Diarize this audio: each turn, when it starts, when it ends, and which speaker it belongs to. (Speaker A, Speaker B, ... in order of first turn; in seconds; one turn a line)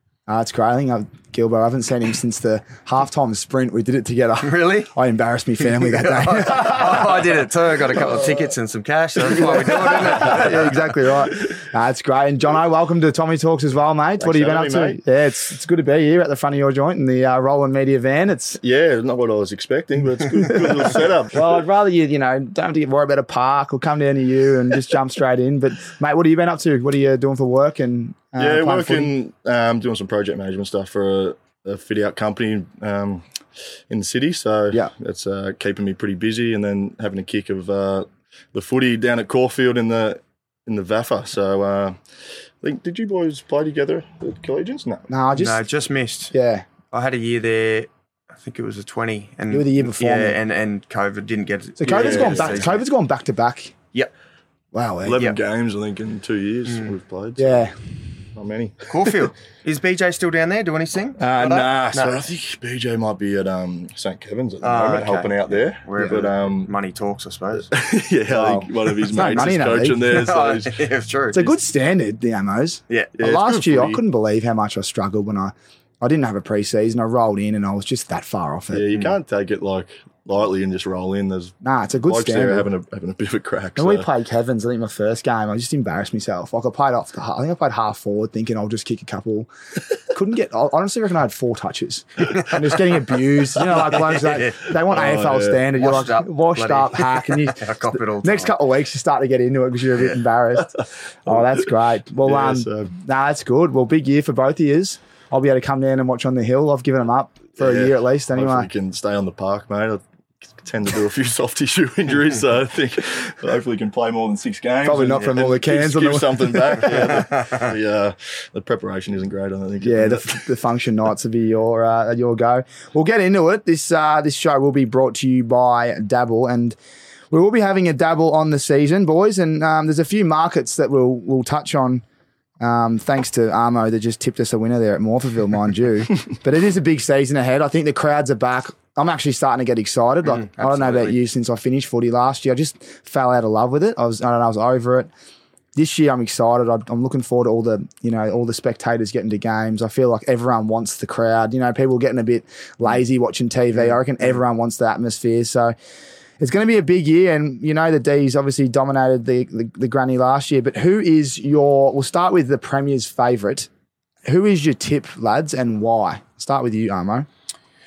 Speaker A: 0.3-7.4
Speaker B: 4.4-4.9
Speaker B: 5.6-11.3
Speaker A: 9.3-18.6
Speaker C: 9.5-10.4
Speaker C: 14.2-15.0
Speaker C: 18.6-21.4
Speaker A: 20.4-29.1
Speaker C: 28.4-33.3
Speaker C: 33.9-45.1
Speaker A: 45.1-45.6
Speaker B: 45.3-46.3
Speaker A: 46.3-46.6
Speaker B: 46.9-52.9
Speaker A: 49.5-50.4
Speaker A: 51.8-53.7
Speaker C: 51.9-52.7
Speaker A: 54.7-55.2
Speaker C: 55.0-57.7
Speaker A: 57.4-57.8
Speaker C: 58.4-59.3
Speaker B: 58.9-62.2
Speaker C: 61.2-66.7
Speaker B: 64.6-67.7
Speaker C: 67.5-70.9
Speaker A: 68.3-70.0
Speaker B: 70.0-71.5
Speaker A: 71.3-78.9
Speaker B: 72.9-73.2
Speaker C: 73.2-74.0
Speaker C: 78.7-84.1
Speaker A: 81.6-82.7
Speaker A: 83.8-89.5
Speaker A: 90.0-108.7
Speaker B: 93.7-94.6
Speaker C: 94.8-95.7
Speaker B: 95.7-98.5
Speaker C: 101.3-101.7
Speaker C: 102.2-102.9
Speaker C: 107.6-120.5
Speaker A: 114.8-117.3
Speaker B: 116.9-117.7
Speaker A: 119.8-126.8
Speaker A: 127.3-132.0
Speaker A: 132.6-145.1
Speaker B: 140.2-141.2
Speaker A: 145.8-155.7
Speaker A: 156.4-163.7
Speaker A: 164.3-167.3